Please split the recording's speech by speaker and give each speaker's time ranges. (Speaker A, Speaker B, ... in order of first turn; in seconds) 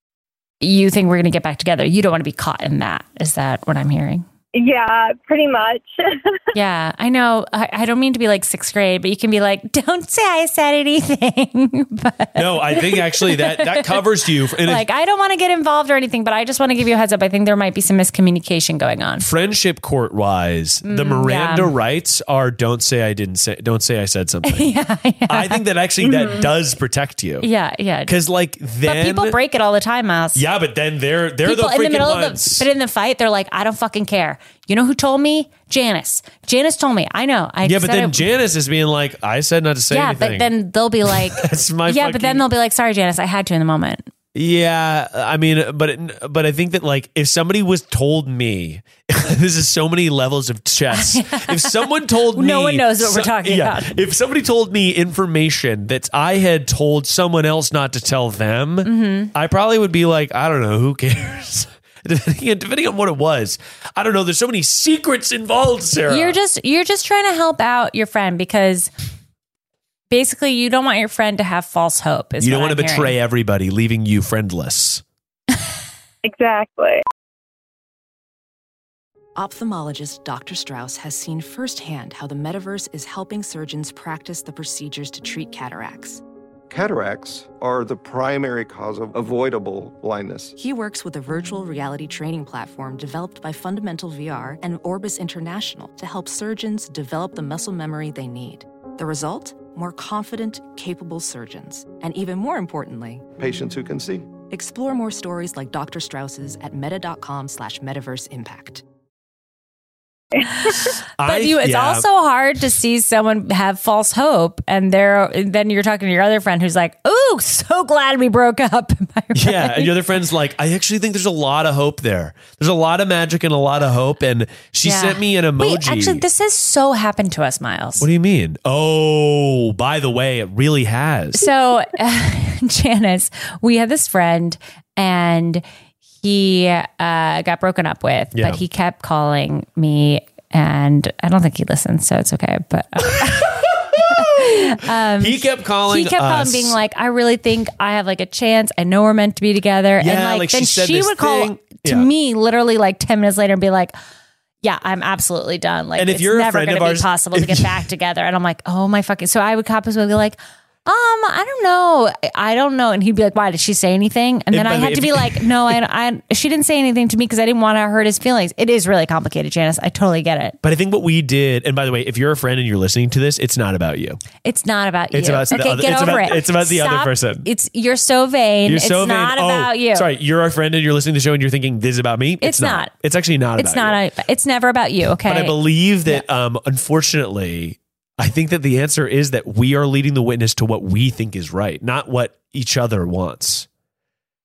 Speaker A: 0.6-4.2, 6.5-14.0, 14.6-19.3, 20.8-21.7, 24.4-25.6, 27.4-28.2, 28.8-30.4, 31.4-38.3, 39.9-44.1, 50.9-54.0, 58.8-59.3, 66.1-68.9, 70.1-73.2, 110.6-120.0, 124.8-128.1, 131.3-135.6, 136.2-153.9, 154.6-170.6, 174.4-180.1, 182.4-182.9, 183.6-186.2
Speaker B: 4.5-6.4, 26.0-26.5, 76.2-77.0
Speaker C: 12.4-14.8, 19.2-24.7, 25.3-27.5, 28.1-29.4, 30.4-32.7, 37.6-40.5, 41.1-42.5, 44.3-66.4, 72.4-75.0, 111.2-112.1, 119.3-126.2, 128.0-131.4, 138.3-138.6, 143.1-146.8, 150.0-152.1, 156.0-157.9, 164.5-165.8, 170.6-174.2, 175.1-177.5, 178.7-184.0, 185.2-193.7
Speaker D: 79.4-86.2, 90.6-103.3, 104.5-108.8
Speaker E: 86.7-90.5, 103.4-104.3